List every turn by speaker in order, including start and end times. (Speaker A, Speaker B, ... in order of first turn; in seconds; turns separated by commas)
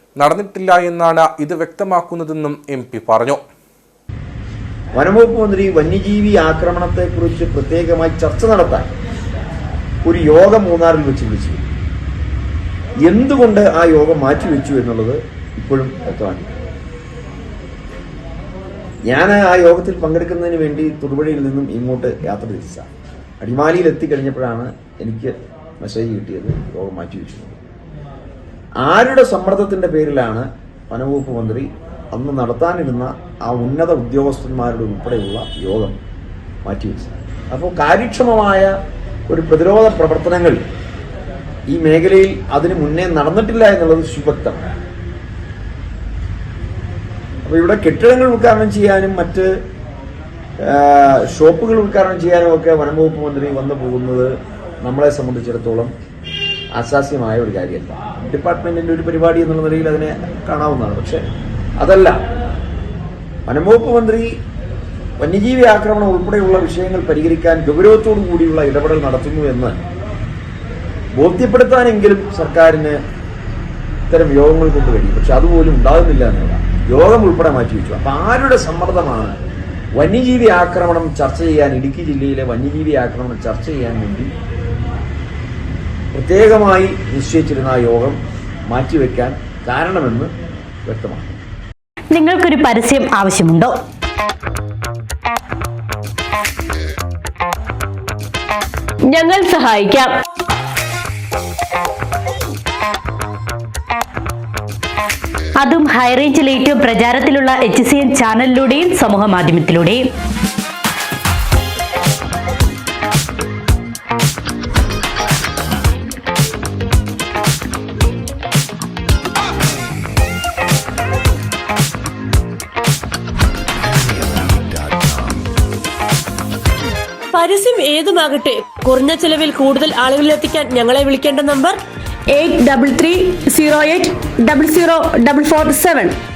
Speaker A: 0.2-3.4, Speaker B: 5.0-8.9, Speaker B: 10.0-11.6, Speaker B: 13.1-16.5, Speaker B: 19.1-22.9, Speaker B: 23.4-27.6, Speaker B: 28.8-36.0, Speaker B: 36.6-38.7, Speaker B: 39.3-40.6, Speaker B: 41.7-44.7, Speaker B: 47.5-49.5, Speaker B: 50.6-55.9, Speaker B: 56.8-61.2, Speaker B: 61.8-62.2, Speaker B: 63.5-64.3, Speaker B: 65.2-69.8, Speaker B: 71.2-73.0, Speaker B: 74.1-79.4, Speaker B: 80.0-84.3, Speaker B: 86.1-90.3, Speaker B: 90.8-91.3, Speaker C: 92.1-93.8, Speaker D: 99.1-100.1, Speaker C: 105.6-110.1, Speaker D: 127.3-131.8, Speaker E: 132.3-136.2